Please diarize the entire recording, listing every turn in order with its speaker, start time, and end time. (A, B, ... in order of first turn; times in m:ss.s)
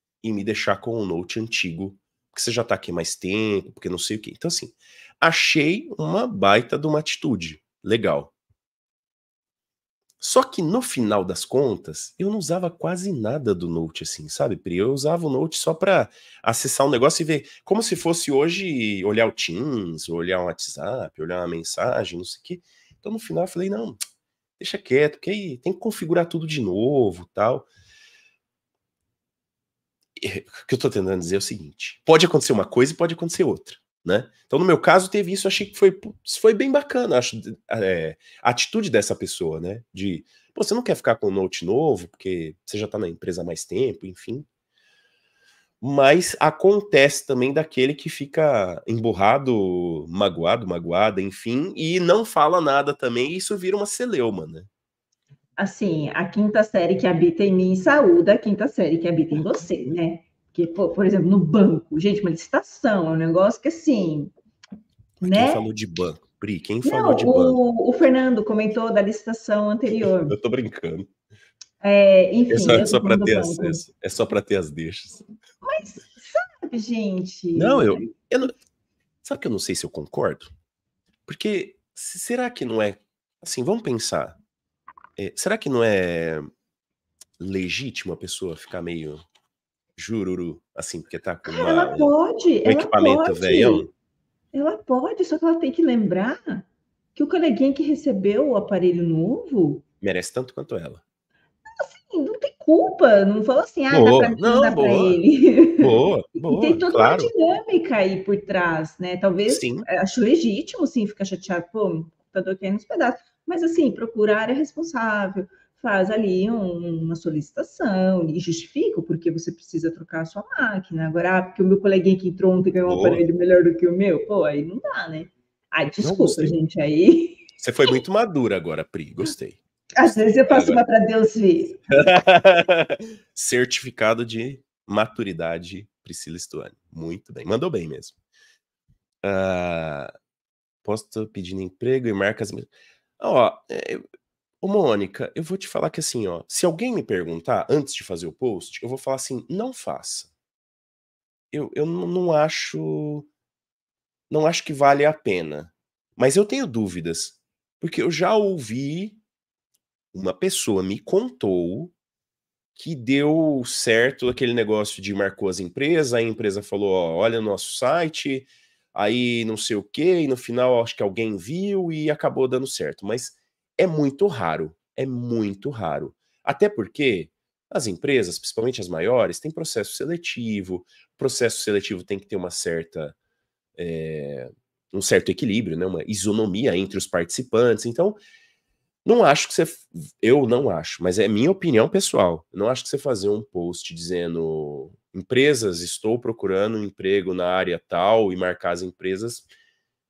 0:00.2-0:08.3 A
0:10.2-0:24.0 A
0:24.6-0:27.7 A
0:30.2-0:44.4 A
0:45.8-0:54.7 A
0:55.6-1:04.3 B
1:05.2-1:07.6 A
1:05.2-1:05.6 B
1:06.8-1:10.4 B
1:10.2-1:11.1 A
1:11.8-1:13.8 B
1:12.5-1:15.2 A
1:15.6-1:18.1 B
1:17.5-1:18.5 A
1:19.2-1:20.5 A
1:21.2-1:24.4 A
1:25.2-1:26.5 A
1:27.4-1:29.2 A
1:30.0-1:32.1 A
1:31.4-1:33.9 B
1:32.6-1:33.9 A
1:34.5-1:39.8 B
1:40.0-1:41.0 A
1:41.7-2:07.4 B
1:43.9-1:45.2 A
1:45.8-1:47.3 A
1:49.5-1:49.9 A
2:02.8-2:03.2 A
2:06.0-2:06.6 A
2:07.6-2:09.6 A
2:10.0-2:11.8 B
2:10.4-2:10.8 A
2:11.9-2:18.1 A
2:19.2-2:20.1 A
2:20.8-2:24.0 A
2:24.6-2:30.3 A
2:31.5-2:33.3 A
2:34.3-2:39.2 A
2:40.1-2:41.9 A
2:42.7-3:03.2 A
3:03.8-3:08.2 A
3:09.0-3:19.5 A